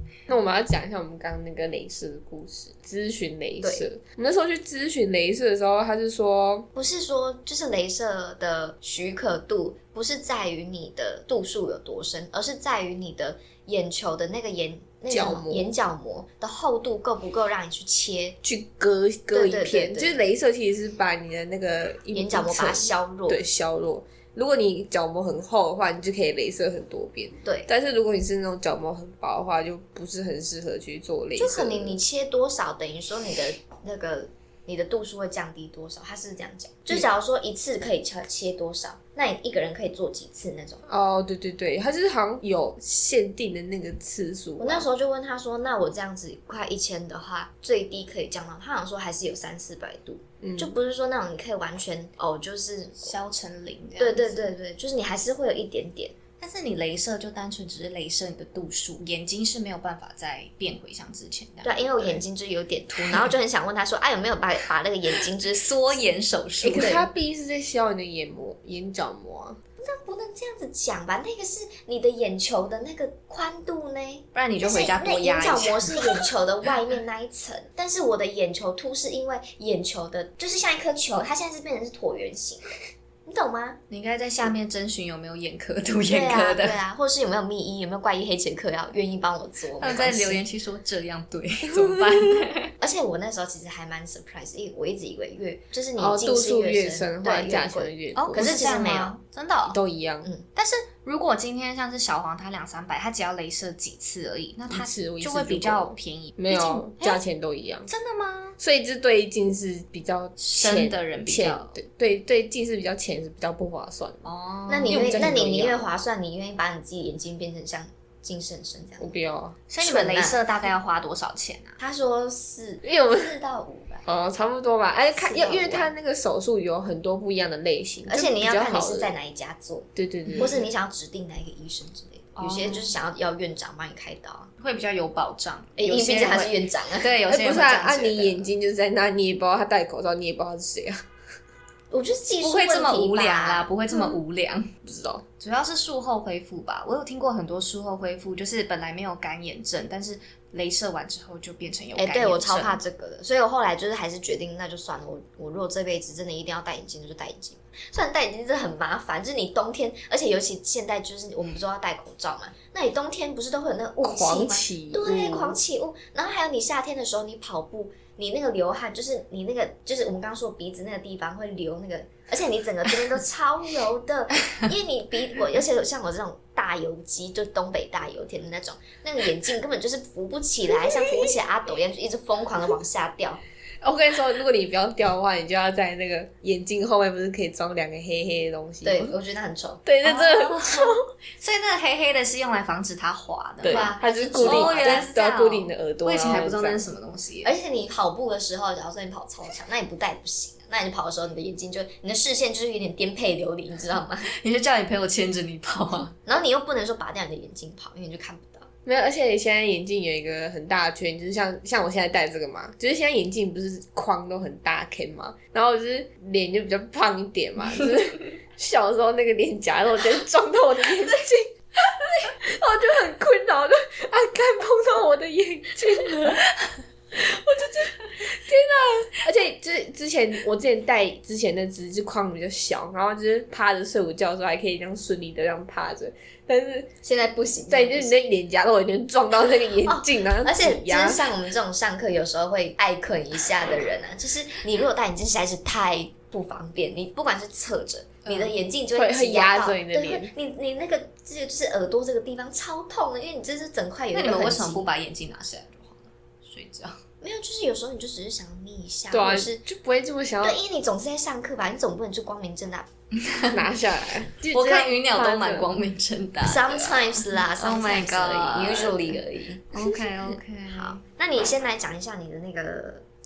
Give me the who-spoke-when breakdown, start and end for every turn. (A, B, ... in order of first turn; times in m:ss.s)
0:00.3-0:06.7 A
0:06.8-0:18.4 B
0:15.1-0:15.7 A
0:18.4-0:32.0 A
0:19.3-0:20.2 B
0:22.1-0:23.4 B
0:31.4-0:40.8 B
0:40.9-0:44.9 A
0:44.6-0:53.1 B
0:50.4-0:50.8 A
0:53.0-0:54.5 C
0:54.0-0:56.2 B
0:56.4-1:02.2 C
1:01.6-1:06.0 B
1:03.0-1:03.3 C
1:05.4-1:07.0 C
1:06.6-1:09.6 A
1:09.8-1:23.8 B
1:14.4-1:16.2 C
1:23.9-1:26.8 C
1:26.1-1:30.4 B
1:29.8-1:32.7 C
1:31.7-1:32.3 A
1:32.8-1:39.2 B
1:36.0-1:38.7 A
1:38.2-1:39.8 C
1:39.7-1:40.3 A
1:40.6-1:47.2 C
1:44.7-1:47.9 A
1:47.9-1:48.6 C
1:48.6-1:54.3 A
1:50.4-1:51.8 C
1:54.2-1:55.3 C
1:54.7-1:59.1 B
1:54.9-1:55.8 A
1:59.0-1:59.6 A
1:59.7-2:01.8 C
1:59.8-2:00.4 B
2:01.8-2:04.1 B
2:02.8-2:03.4 A
2:04.1-2:09.1 A
2:05.2-2:05.9 B
2:08.1-2:14.5 B
2:10.0-2:10.6 A
2:10.3-2:10.6 C
2:12.4-2:12.9 C
2:14.6-2:18.5 C
2:15.8-2:17.1 B
2:17.3-2:21.0 A
2:21.9-2:23.7 B
2:22.4-2:24.7 C
2:24.8-2:25.2 A
2:25.4-2:32.8 C
2:32.0-3:03.4 B
2:44.0-2:45.6 A
3:03.8-3:09.1 A
3:08.8-3:09.8 B
3:09.9-3:11.0 A
3:10.0-3:17.5 C
3:13.6-3:16.9 A
3:13.7-3:15.1 B
3:17.4-3:24.3 B
3:24.3-3:26.1 C
3:26.2-3:28.7 B
3:28.8-3:46.5 A
3:47.1-3:56.9 A
3:57.0-3:58.1 B
3:57.7-4:01.3 A
3:59.8-4:14.9 B
4:08.2-4:08.6 C
4:09.0-4:10.3 A
4:14.1-4:17.0 C
4:17.2-4:19.6 B
4:19.1-4:20.6 A
4:20.4-4:22.9 B
4:23.1-4:23.6 C
4:23.5-4:25.7 A
4:24.5-4:29.2 C
4:26.4-4:30.0 B
4:29.7-4:31.0 C
4:30.7-4:33.0 B